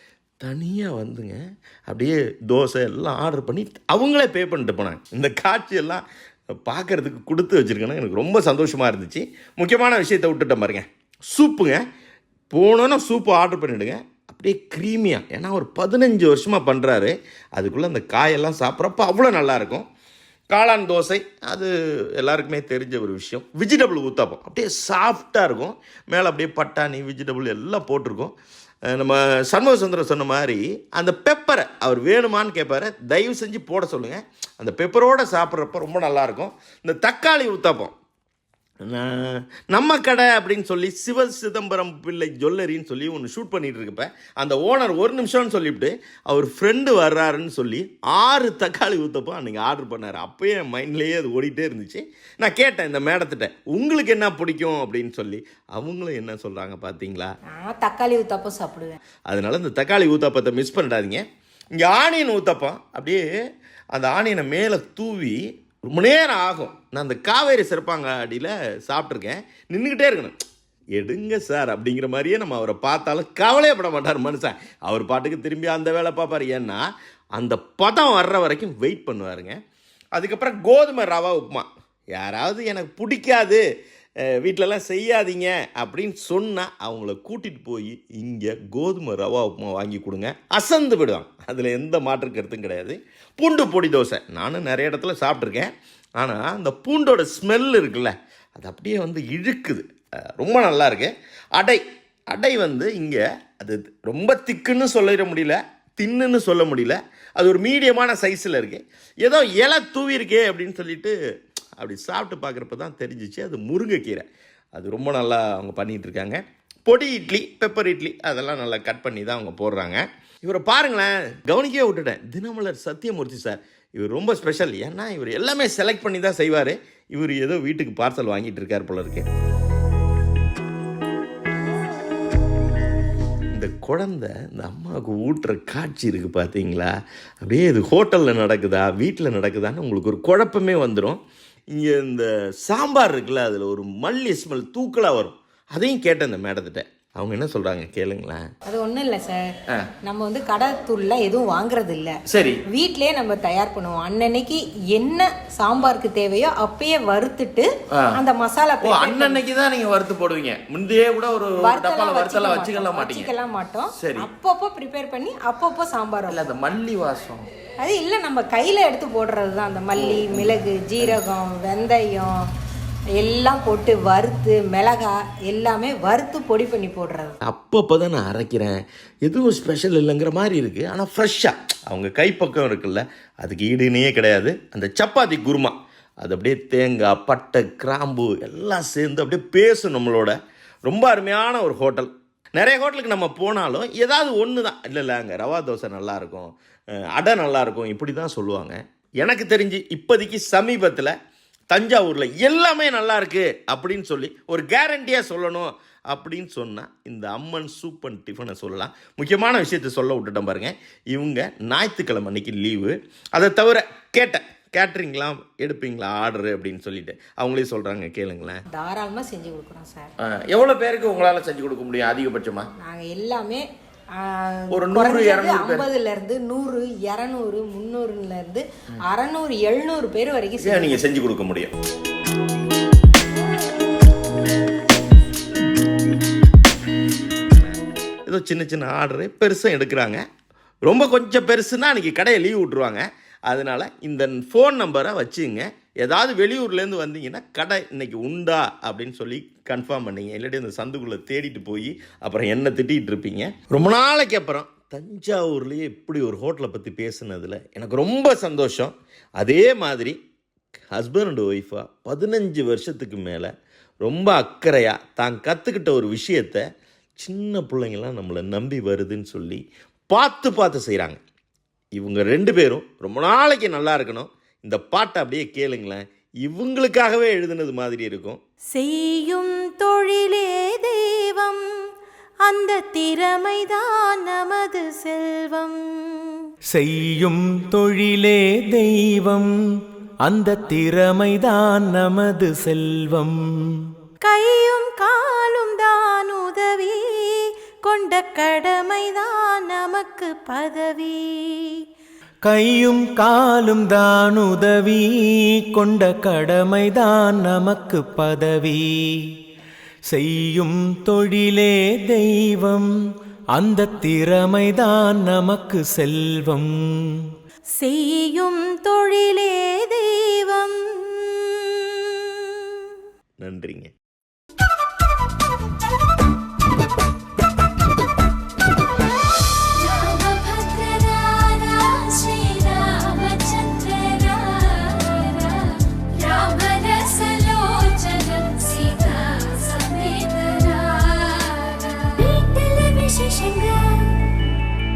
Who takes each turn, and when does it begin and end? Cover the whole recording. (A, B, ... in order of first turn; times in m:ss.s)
0:00.4-0:06.0 A
0:06.6-0:11.8 A
0:12.5-0:19.9 A
0:20.5-0:28.3 A
0:28.9-0:37.9 A
0:38.9-0:57.3 A
0:57.5-0:59.0 B
0:59.3-1:01.2 A
1:01.8-1:03.2 A
1:03.9-1:10.4 A
1:11.0-1:19.6 A
1:20.2-1:23.6 A
1:24.3-1:39.9 A
1:40.4-1:51.1 A
1:51.8-2:09.3 A
2:13.5-2:21.2 A
2:21.7-2:28.4 A
2:28.7-2:29.4 B
2:30.0-2:32.2 B
2:32.3-2:32.6 A
2:32.7-2:39.4 B
2:38.8-2:43.3 A
2:41.6-2:46.4 B
2:44.0-2:44.3 A
2:46.3-2:47.5 A
2:47.8-2:52.3 B
2:50.0-2:51.2 A
2:53.2-2:57.4 B
2:57.5-3:10.4 A
3:10.9-3:16.6 A
3:17.1-3:21.1 A
3:21.7-3:38.6 A
3:38.7-3:40.1 B
3:40.2-3:42.7 A
3:42.8-3:43.6 B
3:44.2-3:51.0 B
3:44.7-3:45.9 A
3:50.6-3:51.7 A
3:58.3-4:00.2 A
4:00.9-4:20.2 A
4:20.9-4:23.5 A
4:24.0-4:26.6 A
4:27.2-4:31.2 A
4:32.0-4:38.4 A
4:38.7-4:41.6 C
4:42.4-4:46.2 C
4:46.7-4:49.5 D
4:50.2-4:53.9 D
4:54.2-5:01.8 C
5:02.4-5:09.4 D
5:10.1-5:12.9 D
5:13.6-5:17.3 D
5:17.8-5:22.9 C
5:23.4-5:23.9 A
5:29.6-5:44.5 C